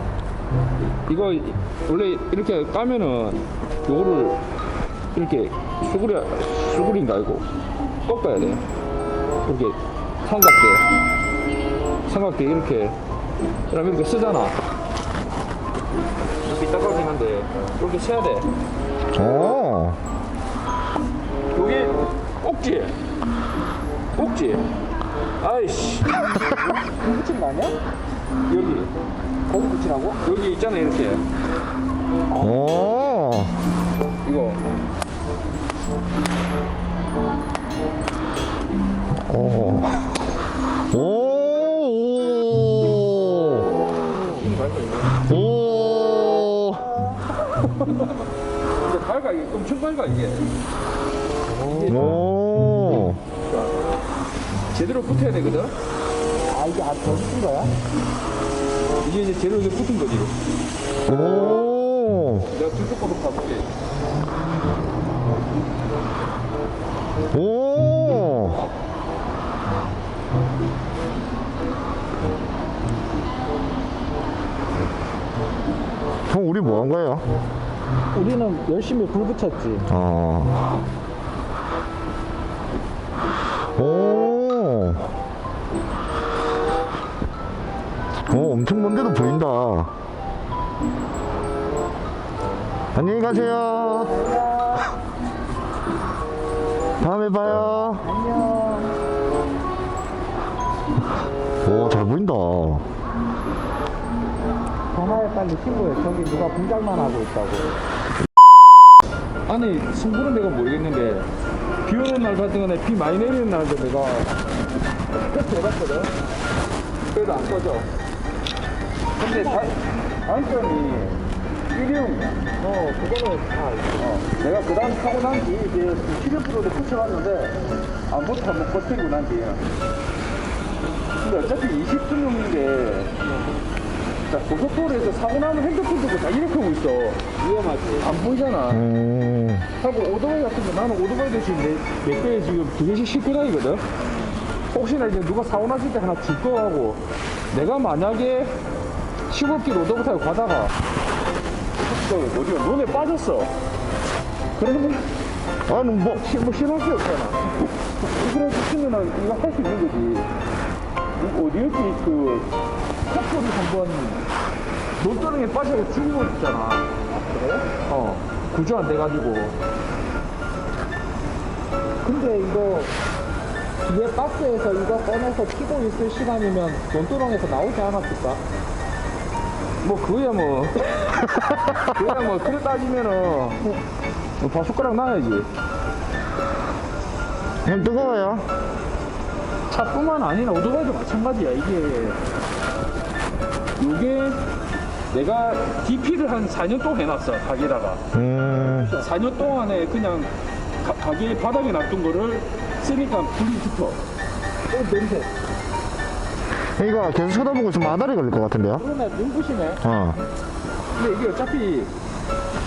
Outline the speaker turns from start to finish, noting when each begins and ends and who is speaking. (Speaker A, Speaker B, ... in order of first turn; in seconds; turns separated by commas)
Speaker A: 1.1-4.4, Speaker A: 5.1-7.5, Speaker A: 8.1-8.6, Speaker A: 9.5-10.9, Speaker A: 12.1-13.0, Speaker A: 13.7-14.6, Speaker A: 16.4-18.5, Speaker B: 19.1-20.0, Speaker A: 21.5-23.0, Speaker A: 24.2-24.7, Speaker A: 25.4-26.5, Speaker C: 26.7-27.8, Speaker A: 28.5-28.9, Speaker C: 29.5-30.2, Speaker A: 30.2-31.2, Speaker B: 32.4-33.6, Speaker A: 34.2-34.8, Speaker B: 39.1-40.3, Speaker B: 40.9-43.7, Speaker A: 44.1-45.2, Speaker B: 45.2-46.9, Speaker A: 48.8-50.5, Speaker C: 51.5-52.0, Speaker A: 51.7-52.1, Speaker B: 51.9-53.2, Speaker A: 53.5-53.8, Speaker A: 54.7-55.8, Speaker C: 56.5-57.7, Speaker A: 59.0-60.3, Speaker B: 61.0-62.5, Speaker A: 62.5-63.7, Speaker B: 67.3-68.7, Speaker B: 76.3-77.3, Speaker C: 78.1-79.8, Speaker B: 79.9-80.9, Speaker B: 83.6-85.2, Speaker B: 88.3-90.0, Speaker B: 92.9-94.2, Speaker C: 94.1-94.9, Speaker B: 97.0-98.1, Speaker C: 98.0-99.0, Speaker B: 101.6-102.9, Speaker C: 104.9-107.8, Speaker A: 109.5-111.3, Speaker A: 111.8-114.4, Speaker A: 115.3-116.1, Speaker A: 117.1-117.9, Speaker A: 119.2-122.4, Speaker C: 119.2-119.7, Speaker C: 122.6-124.2, Speaker A: 124.1-129.6, Speaker A: 131.2-133.2, Speaker A: 134.3-137.3, Speaker C: 137.4-138.2, Speaker A: 138.0-138.8, Speaker B: 138.7-139.7, Speaker A: 139.8-143.8, Speaker A: 144.7-148.6, Speaker A: 149.3-150.7, Speaker A: 151.8-153.5, Speaker A: 154.6-155.1, Speaker B: 155.7-156.2, Speaker A: 156.2-160.3, Speaker A: 161.2-162.5, Speaker A: 163.1-164.2, Speaker A: 165.0-166.9, Speaker C: 167.1-167.8, Speaker A: 167.8-169.6, Speaker C: 172.0-172.9, Speaker C: 173.8-178.4, Speaker A: 179.8-181.3, Speaker A: 181.8-183.7, Speaker A: 184.4-185.5, Speaker B: 187.7-188.5, Speaker A: 189.7-192.2, Speaker A: 193.8-194.4, Speaker A: 195.1-198.0, Speaker B: 198.1-199.0, Speaker C: 198.8-199.1, Speaker A: 199.0-204.0, Speaker C: 204.7-205.3, Speaker B: 206.5-208.8, Speaker C: 208.8-209.8, Speaker B: 209.8-210.2, Speaker A: 210.9-211.9